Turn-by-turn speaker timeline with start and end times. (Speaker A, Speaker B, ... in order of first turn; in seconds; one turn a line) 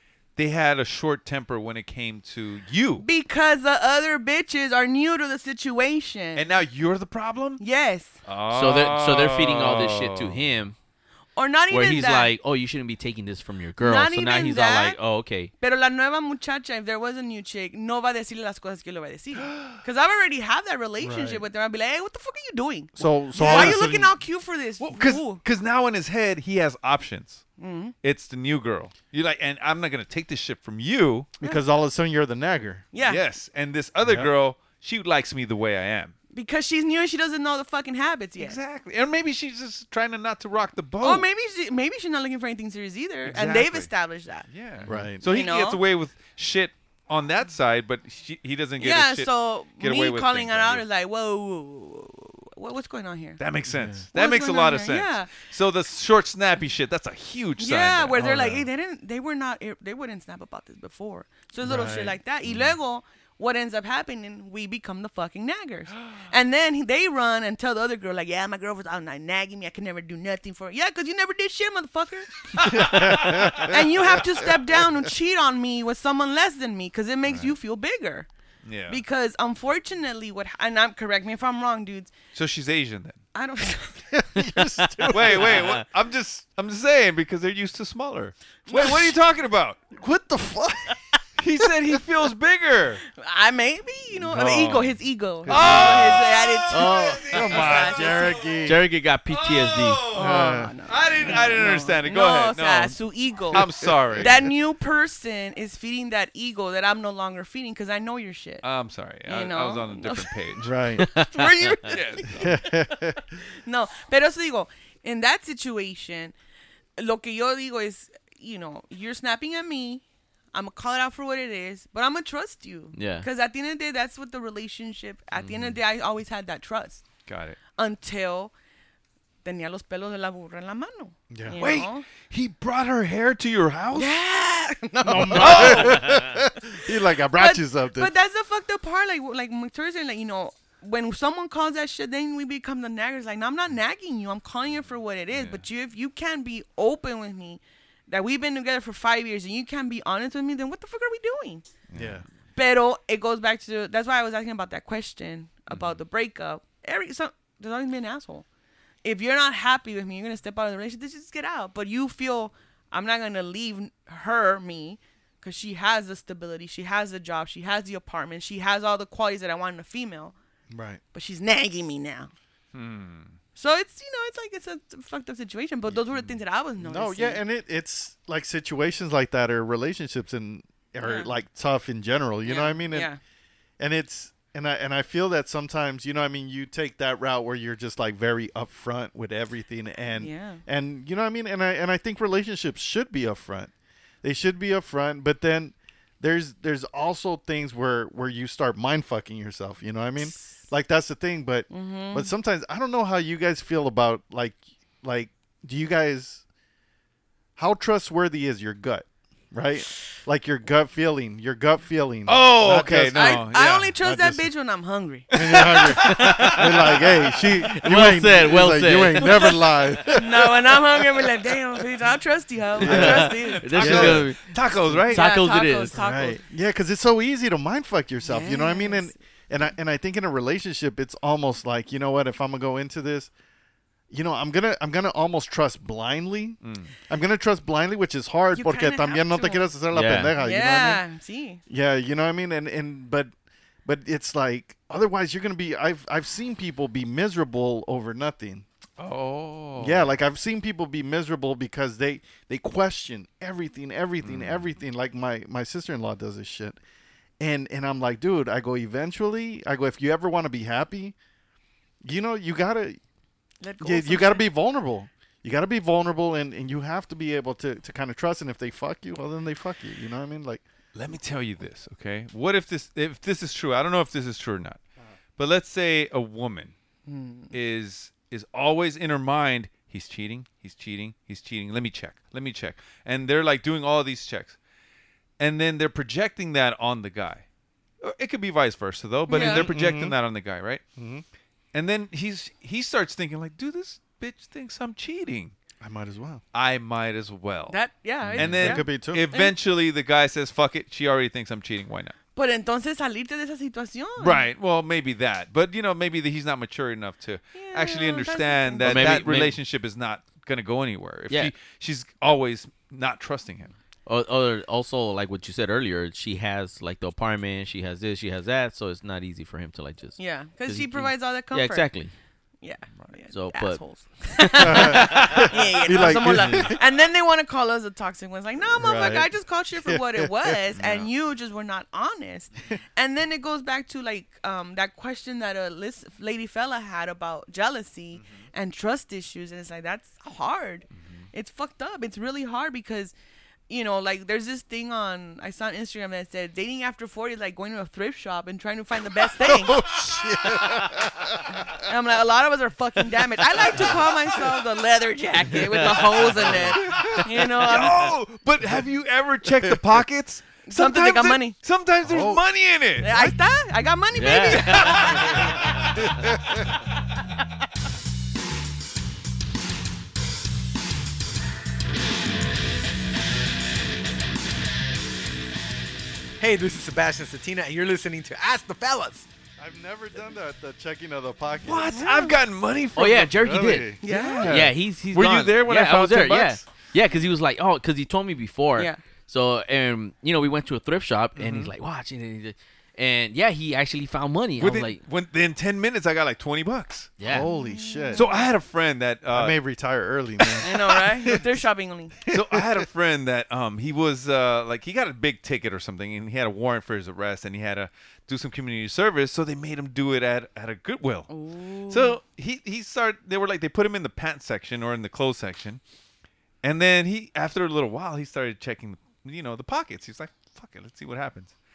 Speaker A: 0.4-3.1
Speaker B: 3.0-6.4
Speaker A: 6.3-7.6
Speaker B: 7.6-8.2
Speaker A: 8.3-10.4
Speaker C: 8.5-10.7
Speaker B: 11.3-12.3
Speaker C: 11.7-15.5
Speaker B: 13.8-15.0
Speaker B: 15.6-25.4
Speaker A: 19.4-19.8
Speaker D: 21.0-21.4
Speaker D: 22.9-24.1
Speaker A: 23.4-23.9
Speaker A: 24.8-27.4
Speaker B: 27.6-27.9
Speaker A: 28.0-31.3
Speaker D: 31.4-32.9
Speaker B: 32.9-33.2
Speaker A: 33.0-36.1
Speaker D: 34.0-34.3
Speaker B: 36.3-38.6
Speaker A: 38.4-41.3
Speaker B: 41.0-44.5
Speaker A: 43.2-43.9
Speaker A: 44.5-50.8
Speaker D: 44.9-45.2
Speaker B: 45.2-45.8
Speaker B: 48.8-53.4
Speaker A: 53.4-58.3
Speaker D: 53.7-54.1
Speaker B: 54.1-55.4
Speaker B: 57.6-78.3
Speaker D: 58.2-58.7
Speaker D: 61.6-62.2
Speaker A: 62.5-62.7
Speaker A: 72.5-73.7
Speaker D: 72.6-73.9
Speaker A: 77.3-77.5
Speaker A: 78.6-79.0
Speaker B: 78.9-82.1
Speaker A: 82.3-83.2
Speaker B: 83.3-84.1
Speaker D: 84.1-85.7
Speaker A: 85.1-89.8
Speaker B: 88.7-89.0
Speaker D: 89.9-91.0
Speaker A: 91.4-93.0
Speaker B: 93.2-98.6
Speaker D: 94.2-94.8
Speaker A: 94.3-94.8
Speaker D: 95.5-96.2
Speaker A: 95.5-98.4
Speaker D: 96.7-98.8
Speaker C: 98.6-100.0
Speaker A: 99.3-103.0
Speaker D: 100.1-100.7
Speaker B: 100.1-108.6
Speaker A: 103.5-104.5
Speaker D: 103.5-104.3
Speaker A: 108.6-110.7
Speaker B: 109.3-110.3
Speaker D: 110.6-111.1
Speaker C: 111.0-111.8
Speaker B: 111.1-112.7
Speaker A: 111.9-112.5
Speaker D: 112.3-113.2
Speaker B: 113.6-116.3
Speaker B: 117.0-127.0
Speaker C: 122.9-123.3
Speaker A: 127.3-127.6
Speaker B: 127.7-128.5
Speaker B: 129.4-132.1
Speaker D: 131.3-131.6
Speaker A: 131.6-134.1
Speaker B: 133.9-136.4
Speaker D: 135.0-138.1
Speaker A: 135.3-136.2
Speaker B: 137.4-151.7
Speaker A: 145.3-145.6
Speaker A: 151.9-152.2
Speaker D: 151.9-152.2
Speaker B: 152.6-158.4
Speaker A: 155.7-156.0
Speaker B: 159.0-170.3
Speaker D: 170.7-171.0
Speaker B: 171.1-172.3
Speaker A: 172.7-173.4
Speaker B: 173.6-177.4
Speaker D: 176.8-183.1
Speaker B: 181.0-181.3
Speaker B: 182.4-183.2
Speaker D: 183.8-193.7
Speaker B: 190.2-190.6
Speaker D: 194.2-206.4
Speaker B: 200.2-200.6
Speaker B: 201.7-202.3
Speaker D: 207.6-214.5
Speaker A: 212.3-213.9
Speaker B: 213.2-216.1
Speaker D: 215.3-220.6
Speaker A: 215.3-216.6
Speaker C: 216.0-216.7
Speaker C: 217.6-219.4
Speaker B: 220.1-224.2
Speaker C: 222.8-225.9
Speaker D: 222.8-224.3
Speaker A: 223.0-225.3
Speaker B: 225.1-226.4
Speaker D: 225.9-233.3
Speaker B: 228.2-229.1
Speaker D: 234.1-241.0
Speaker A: 236.6-236.9
Speaker B: 238.5-239.7
Speaker C: 239.9-240.3
Speaker B: 240.4-241.6
Speaker D: 241.7-243.3
Speaker D: 243.8-248.7
Speaker A: 249.0-250.1
Speaker D: 249.8-256.8
Speaker A: 254.2-254.7
Speaker D: 257.4-261.1
Speaker D: 262.0-263.0
Speaker B: 263.6-264.4
Speaker D: 263.8-270.6
Speaker A: 270.9-274.8
Speaker A: 275.4-276.7
Speaker B: 277.1-277.5
Speaker A: 277.5-284.6
Speaker A: 285.4-287.4
Speaker A: 288.0-290.8
Speaker B: 289.3-289.7
Speaker D: 289.3-290.1
Speaker D: 290.9-291.2
Speaker A: 291.7-295.6
Speaker D: 295.8-296.4
Speaker A: 296.5-297.8
Speaker B: 297.7-299.5
Speaker D: 298.2-299.2
Speaker A: 298.3-302.1
Speaker B: 302.4-304.4
Speaker A: 304.2-313.7
Speaker B: 307.6-309.2
Speaker C: 308.8-309.6
Speaker C: 314.1-322.1
Speaker B: 320.2-321.9
Speaker B: 322.6-343.1
Speaker C: 323.3-323.8
Speaker D: 324.6-326.8
Speaker D: 328.6-329.3
Speaker D: 329.8-330.6
Speaker A: 330.7-331.1
Speaker A: 338.1-338.5
Speaker A: 340.9-341.3
Speaker B: 343.7-349.9
Speaker D: 349.4-351.8
Speaker B: 351.6-358.1
Speaker D: 353.3-354.6
Speaker D: 356.2-357.3
Speaker A: 357.0-363.1
Speaker D: 359.6-360.0
Speaker B: 360.7-361.6
Speaker D: 362.0-362.4
Speaker B: 363.0-365.6
Speaker D: 363.0-363.4
Speaker C: 364.1-365.1
Speaker A: 364.5-365.9
Speaker D: 365.9-366.6
Speaker E: 376.4-379.3
Speaker D: 379.6-382.1
Speaker A: 381.6-386.6
Speaker B: 381.9-382.4
Speaker C: 382.9-383.9
Speaker D: 383.3-384.0
Speaker B: 384.0-384.6
Speaker C: 384.4-395.0
Speaker B: 388.8-389.0
Speaker D: 391.4-391.7
Speaker A: 394.6-397.1
Speaker C: 397.2-397.5
Speaker D: 397.2-398.3
Speaker B: 397.5-398.4
Speaker A: 398.1-399.6
Speaker D: 399.3-401.6
Speaker B: 400.6-402.1
Speaker D: 402.3-402.8
Speaker A: 402.3-411.3
Speaker B: 411.3-412.2
Speaker A: 411.9-415.8
Speaker A: 416.6-421.5